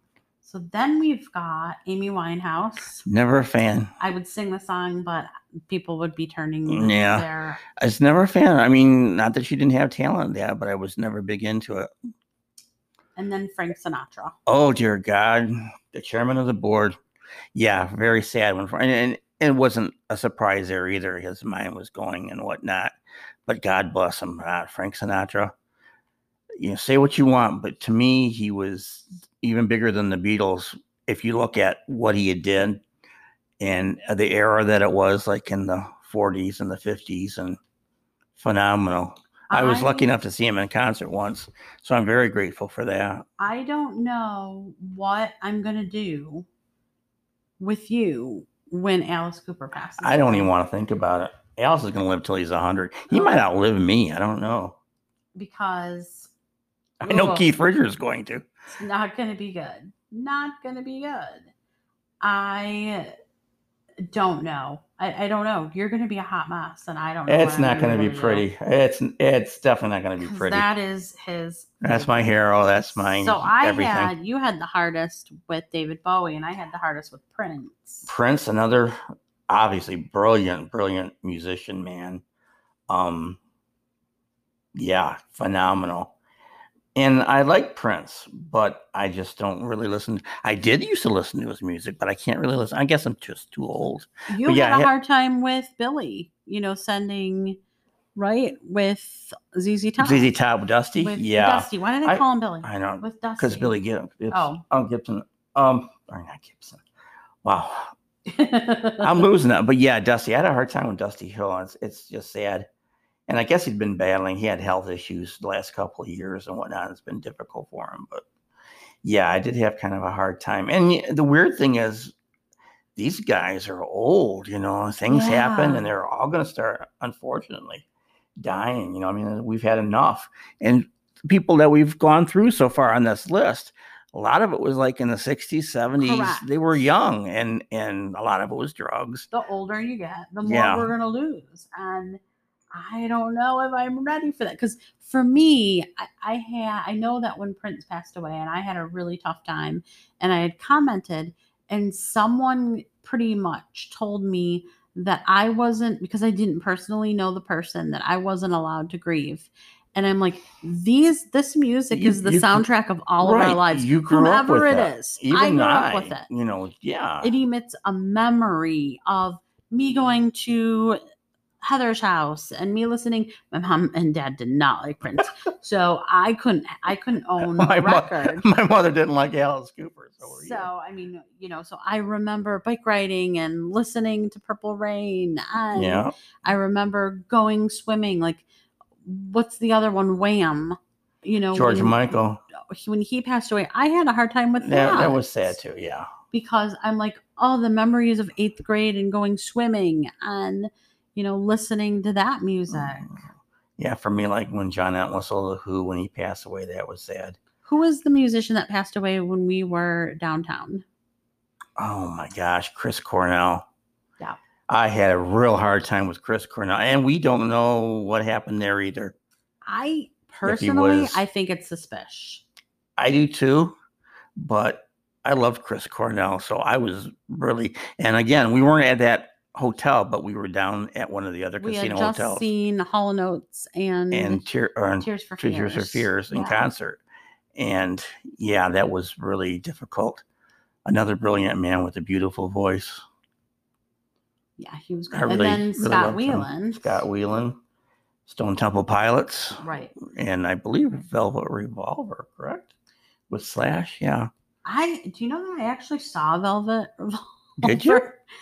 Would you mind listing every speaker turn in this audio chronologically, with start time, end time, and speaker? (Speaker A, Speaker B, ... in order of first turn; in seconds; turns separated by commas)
Speaker A: 0.4-3.1, Speaker B: 3.0-3.9, Speaker A: 4.0-7.6, Speaker B: 6.7-11.9, Speaker A: 13.2-14.4, Speaker B: 14.5-17.0, Speaker B: 17.5-22.9, Speaker B: 23.5-25.6, Speaker B: 26.6-32.8, Speaker B: 33.6-37.6, Speaker B: 38.4-43.3, Speaker A: 39.5-40.1, Speaker A: 43.4-46.5, Speaker A: 47.6-50.5, Speaker B: 50.0-54.8, Speaker A: 53.1-53.4, Speaker A: 55.4-56.3, Speaker B: 57.0-58.5, Speaker A: 57.0-57.5, Speaker A: 58.7-61.5, Speaker A: 62.2-63.1, Speaker A: 64.0-68.5, Speaker B: 67.3-70.7, Speaker A: 70.2-72.3, Speaker B: 71.8-74.1, Speaker A: 73.0-78.1, Speaker B: 78.1-79.0, Speaker B: 79.5-82.2, Speaker B: 82.9-83.4, Speaker B: 84.8-86.1, Speaker B: 87.0-94.9, Speaker A: 94.3-97.6, Speaker A: 98.2-100.3, Speaker B: 100.0-106.8, Speaker A: 101.0-103.8, Speaker A: 104.3-104.6, Speaker B: 107.4-107.9, Speaker A: 108.3-109.2, Speaker B: 109.0-112.7, Speaker B: 113.3-118.2, Speaker B: 119.0-122.1, Speaker B: 123.0-127.8, Speaker A: 125.1-125.9, Speaker B: 128.4-139.3, Speaker A: 136.0-136.5, Speaker A: 139.3-142.2, Speaker B: 140.4-140.9, Speaker A: 142.7-166.3, Speaker B: 161.9-162.7, Speaker B: 163.2-167.3, Speaker A: 167.2-171.0, Speaker A: 171.6-178.5, Speaker B: 177.4-180.7, Speaker A: 180.2-188.4, Speaker B: 185.7-186.1, Speaker A: 189.0-195.5, Speaker B: 191.5-192.4, Speaker B: 194.6-196.1, Speaker A: 196.3-203.1, Speaker B: 202.7-203.2, Speaker B: 203.8-207.4, Speaker A: 207.7-210.8, Speaker B: 211.8-213.7, Speaker B: 214.7-219.2, Speaker A: 219.7-222.4, Speaker B: 220.4-221.2, Speaker B: 223.0-223.8, Speaker B: 224.4-232.5, Speaker A: 231.6-234.4, Speaker B: 234.1-237.0, Speaker A: 235.0-236.6, Speaker B: 237.6-240.2, Speaker B: 240.8-243.0, Speaker A: 244.6-247.0, Speaker B: 245.1-247.6, Speaker B: 248.3-252.7, Speaker A: 249.6-249.9, Speaker B: 253.3-254.3, Speaker A: 254.7-258.2, Speaker B: 257.6-258.1